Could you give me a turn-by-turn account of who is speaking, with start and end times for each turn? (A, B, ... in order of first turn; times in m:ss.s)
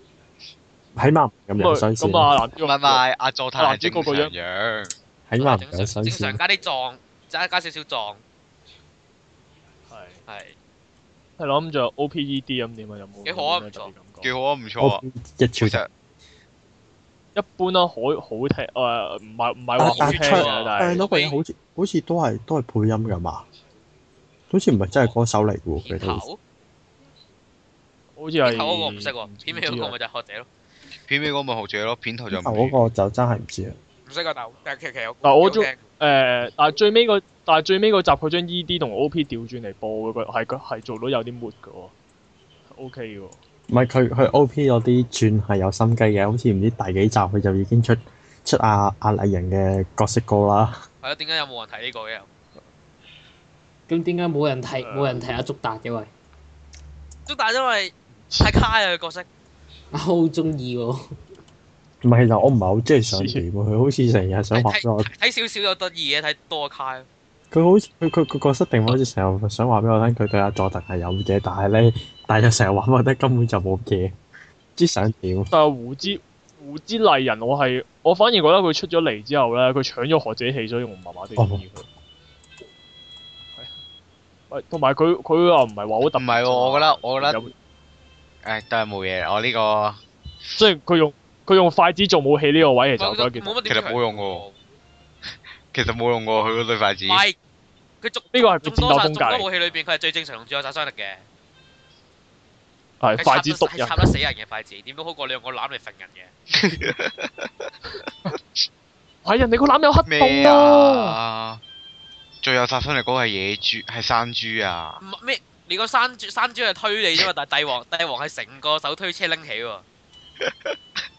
0:01.0-0:02.3 A
0:01.6-0:03.0 B
0:02.6-0:04.9 C
0:03.6-0:04.3 B
0:05.3-0:06.4 A
0:05.4-0:08.2 D
0:09.9-0:10.2 B
0:10.3-0:10.6 D
0:11.4-0:14.3 B
0:13.2-0:13.9 D
0:14.2-0:15.0 C
0:14.8-0:15.8 A
0:15.6-0:15.9 C
0:17.4-0:21.0 B
0:19.8-0:23.4 A
0:19.8-0:21.4 D
0:24.5-0:26.2 A
0:25.8-0:26.4 D
0:28.2-0:30.0 B
0:28.4-0:30.5 D
0:31.1-0:32.8 C
0:32.3-0:33.8 A
0:34.1-0:35.8 D
0:35.2-0:41.9 B
0:42.7-0:43.4 B
0:43.7-0:50.8 A
0:51.0-0:52.3 D
0:53.9-0:56.1 E
0:54.8-0:55.2 B
0:57.3-0:59.3 D
0:58.1-0:58.6 B
0:59.9-1:01.0 E
1:02.0-1:05.1 A
1:03.1-1:03.4 B
1:04.5-1:07.1 D
1:07.5-1:14.2 A
1:14.8-1:15.5 A
1:15.5-1:21.9 B
1:21.4-1:21.6 A
1:24.5-1:27.5 B
1:26.2-1:27.4 C
1:28.4-1:30.0 C
1:30.6-1:33.6 B
1:33.0-1:34.6 D
1:33.7-1:34.4 C
1:35.7-1:37.2 C
1:37.0-1:37.4 D
1:38.0-1:41.2 D
1:38.3-1:39.5 B
1:43.0-1:44.2 B
1:43.2-1:46.3 D
1:46.5-1:47.7 C
1:48.3-1:48.6 C
1:49.2-1:51.2 B
1:50.1-1:51.6 C
1:52.4-1:55.0 C
1:55.0-1:59.8 D
2:00.4-2:00.8 C